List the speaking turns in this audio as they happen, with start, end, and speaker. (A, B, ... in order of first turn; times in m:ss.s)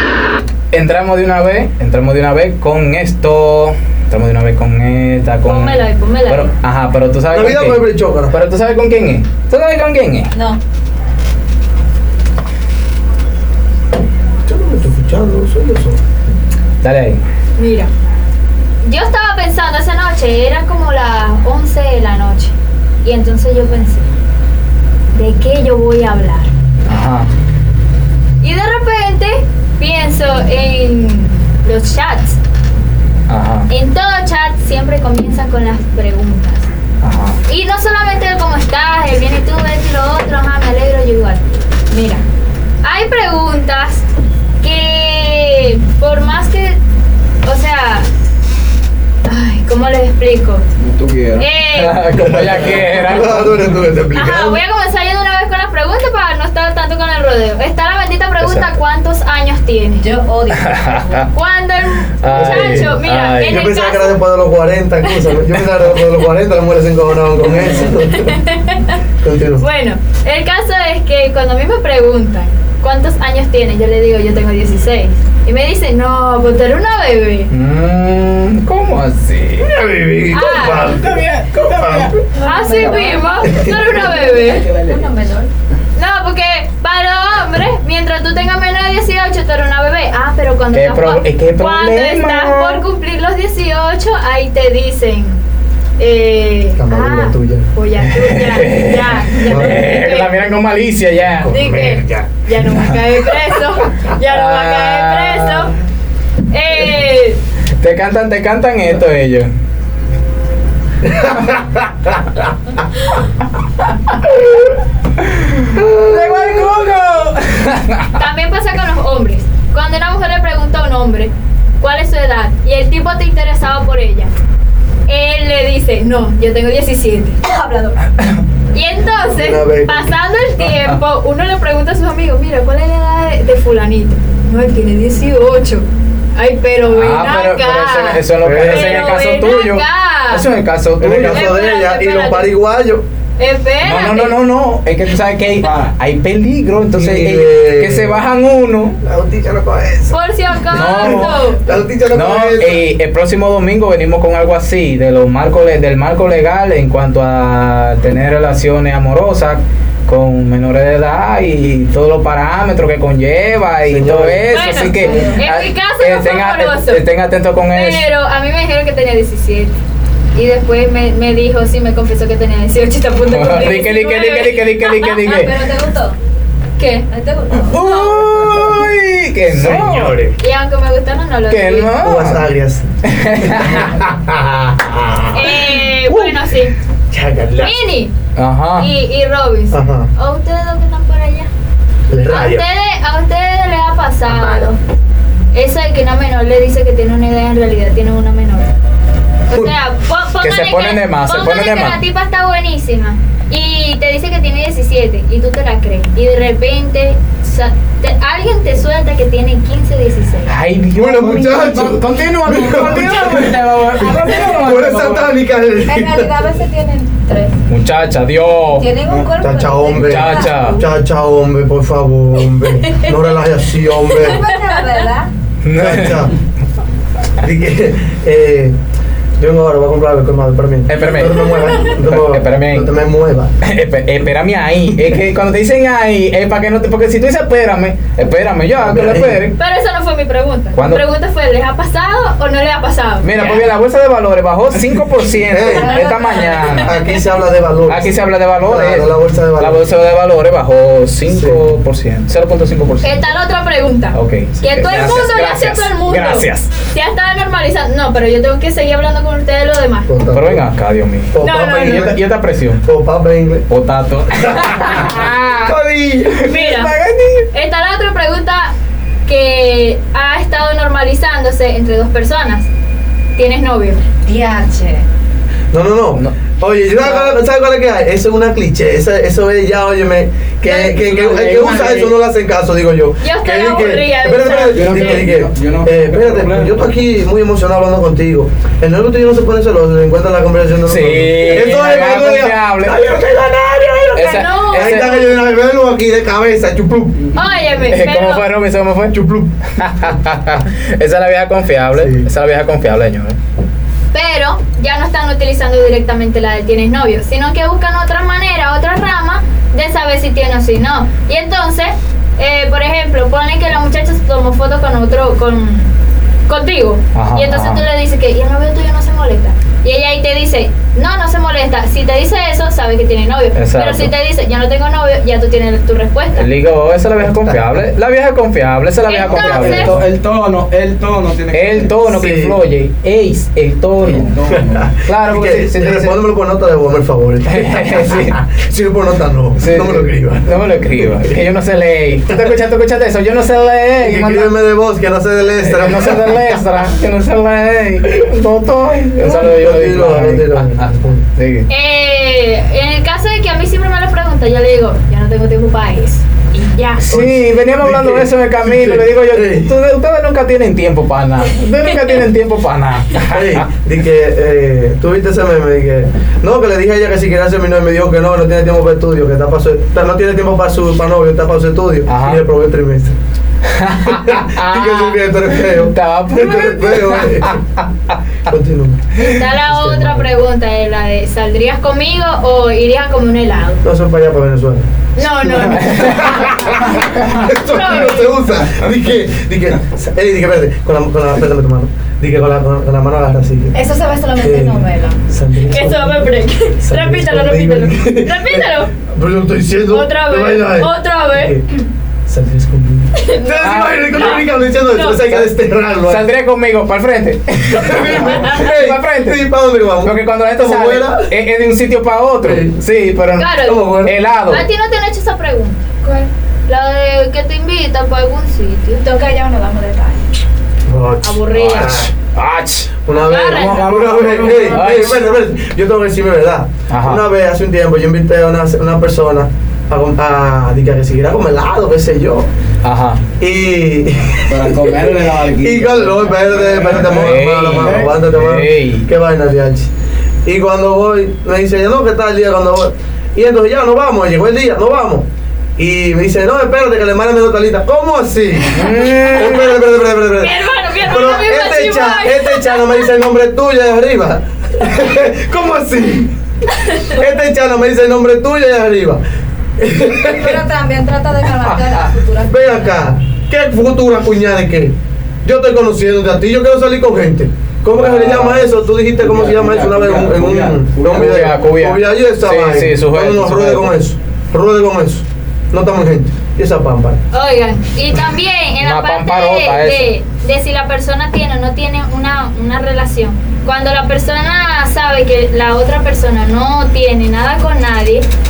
0:00.7-0:10.3 A
0:05.4-0:06.5 B
0:07.3-0:08.4 C
0:14.5-0:16.0 C
0:16.8-0:17.2 A
0:17.6-0:17.9 B
0:18.8-0:24.1 B
0:25.1-0:26.5 B
0:26.9-0:27.3 A
0:28.4-0:32.4 B
0:33.3-0:33.7 A
0:33.7-0:36.7 B
0:37.0-0:37.4 A
0:37.5-0:42.2 B
0:42.8-0:44.1 B
0:44.6-0:46.8 B
0:47.4-0:48.1 B
0:49.2-0:50.6 B
0:50.8-0:51.5 D
0:51.4-0:52.1 B
0:51.7-0:53.7 A
0:52.2-0:54.6 C
0:54.1-1:00.1 B
0:58.4-0:58.8 A
1:00.0-1:01.3 E
1:00.5-1:01.3 A
1:01.3-1:04.2 B
1:02.2-1:03.7 A
1:02.3-1:08.4 C
1:08.1-1:09.0 B
1:09.2-1:09.6 C
1:09.6-1:17.5 B
1:17.5-1:19.7 A
1:19.6-1:21.1 C
1:20.3-1:21.0 B
1:20.3-1:23.0 A
1:21.8-1:22.2 C
1:22.4-1:24.7 B
1:22.4-1:23.0 E
1:22.6-1:23.3 D
1:23.4-1:24.1 C
1:24.0-1:25.1 D
1:24.9-1:25.5 E
1:26.0-1:35.4 B
1:30.7-1:32.9 A
1:36.0-1:40.4 B
1:36.8-1:37.7 C
1:38.1-1:41.6 A
1:39.5-1:39.8 C
1:41.4-1:42.3 C
1:41.5-1:45.8 B
1:44.3-1:45.7 A
1:46.5-1:47.4 B
1:47.8-1:49.5 A
1:51.0-1:52.4 C
1:55.2-1:58.1 A
1:55.8-1:56.8 C
1:58.2-2:04.3 B
2:05.1-2:08.0 B
2:08.7-2:20.5 B
2:09.3-2:10.1 C
2:10.6-2:11.0 A
2:16.9-2:21.5 A
2:18.4-2:19.1 C
2:21.0-2:23.0 C
2:21.2-2:22.5 B
2:23.4-2:24.4 B
2:23.8-2:29.0 A
2:25.6-2:25.9 D
2:26.9-2:28.2 C
2:29.0-2:30.2 C
2:30.1-2:31.6 B
2:30.7-2:31.4 A
2:30.8-2:32.8 C
2:32.1-2:48.1 A
2:43.8-2:45.4 C
2:44.5-2:47.0 B
2:47.7-2:49.8 B
2:50.4-2:55.4 B
2:53.3-2:55.6 A
2:55.4-2:56.2 E
2:56.8-2:57.1 B
2:57.1-2:57.8 E
2:57.6-3:00.2 A
2:57.7-2:58.4 B
2:59.5-3:00.4 C
3:00.4-3:01.9 B
3:01.5-3:02.4 A
3:02.0-3:02.9 C
3:03.1-3:03.9 A
3:03.5-3:05.5 C
3:05.3-3:06.7 B
3:06.1-3:06.3 A
3:07.1-3:07.8 C
3:07.6-3:08.1 B
3:08.4-3:08.9 A
3:08.8-3:11.5 B
3:09.7-3:10.1 C
3:12.1-3:12.6 C
3:12.2-3:14.8 B
3:14.2-3:14.7 C
3:15.5-3:18.7 B
3:19.5-3:30.6 B
3:20.4-3:22.0 A
3:30.5-3:35.4 A
3:31.0-3:36.3 C
3:35.8-3:37.6 E
3:37.7-3:38.9 A
3:38.8-3:40.2 E
3:39.0-3:39.4 D
3:39.4-3:44.4 C
3:39.9-3:40.8 A
3:40.2-3:40.6 D
3:44.1-3:45.3 E
3:44.4-3:45.0 B
3:45.6-3:46.3 A
3:45.8-3:46.4 C
3:47.4-3:48.8 C
3:49.4-3:53.5 C
3:50.9-3:52.9 A
3:53.6-3:59.6 A
3:58.8-3:59.4 C
3:59.6-4:03.6 B
4:00.8-4:01.0 A
4:03.2-4:07.0 A
4:05.5-4:06.0 C
4:05.8-4:06.7 B
4:05.9-4:06.7 E
4:06.7-4:09.8 C
4:07.9-4:13.3 A
4:11.3-4:11.6 C
4:13.0-4:20.1 B
4:14.1-4:16.7 A
4:20.1-4:20.6 C
4:20.3-4:22.8 A
4:21.3-4:22.2 C
4:21.4-4:22.1 B
4:22.8-4:23.6 C
4:23.7-4:25.8 A
4:24.6-4:26.5 C
4:26.3-4:27.5 A
4:26.5-4:26.9 B
4:27.5-4:28.7 B
4:29.3-4:32.7 B
4:33.4-4:34.1 B
4:34.3-4:35.1 E
4:35.7-4:57.2 C
4:36.9-4:37.4 A
4:40.6-4:41.0 E
4:41.0-4:42.1 D
4:41.6-4:42.0 E
4:43.2-4:45.3 B
4:44.7-4:46.9 D
4:50.8-4:53.0 A
4:54.2-4:55.2 A
4:54.2-4:55.3 B
4:57.3-4:58.5 B
4:57.9-4:59.2 A
4:59.1-4:59.5 C
4:59.8-5:03.4 A
5:02.0-5:02.3 C
5:04.1-5:15.9 B
5:16.5-5:26.5 B
5:17.2-5:17.8 A
5:23.6-5:24.1 A
5:26.4-5:30.0 A
5:29.1-5:29.9 B
5:29.3-5:32.0 D
5:31.5-5:34.4 A
5:32.1-5:32.6 C
5:34.1-5:34.9 D
5:34.5-5:41.4 C
5:34.9-5:36.2 A
5:37.5-5:38.4 A
5:39.6-5:44.5 A
5:44.0-5:46.7 C
5:45.6-5:51.7 A
5:49.2-5:51.2 C
5:51.7-5:57.1 B
5:57.0-6:03.6 A
5:57.1-5:59.7 C
6:03.3-6:13.2 C
6:12.1-6:12.4 A
6:13.7-6:18.2 A
6:14.0-6:17.6 C
6:18.5-6:19.1 C
6:19.2-6:23.8 B
6:19.3-6:19.5 A
6:19.6-6:20.3 C
6:23.8-6:24.9 C
6:25.2-6:28.4 B
6:25.8-6:26.4 A
6:26.0-6:33.8 C
6:33.8-6:35.2 E
6:34.4-6:36.2 C
6:35.6-6:38.9 B
6:36.8-6:41.6 C
6:39.9-6:41.6 B
6:42.3-6:46.2 C
6:43.2-6:45.2 B
6:43.6-6:44.1 A
6:46.0-6:49.5 A
6:47.7-6:51.3 C
6:48.2-6:48.5 B
6:50.0-6:54.6 A
6:52.4-6:52.7 C
6:53.4-6:59.1 B
6:53.6-6:54.2 C
6:59.0-7:00.2 E
7:00.9-7:02.1 C
7:01.2-7:01.9 B
7:01.5-7:03.0 A
7:03.1-7:12.5 C
7:03.1-7:03.9 B
7:03.6-7:03.8 A
7:03.6-7:05.2 D
7:04.6-7:05.3 A
7:06.9-7:07.2 A
7:12.8-7:13.2 A
7:13.4-7:19.9 C
7:14.4-7:18.2 D
7:17.1-7:19.1 A
7:20.4-7:25.3 C
7:25.8-7:36.3 C
7:28.7-7:29.8 A
7:30.4-7:33.0 B
7:37.0-7:39.2 C
7:39.8-7:40.6 C
7:40.2-7:42.9 E
7:41.6-7:42.0 A
7:42.5-7:57.2 C
7:48.0-7:51.2 D
7:51.1-7:53.9 A
7:57.3-8:08.2 B
7:58.8-8:00.1 A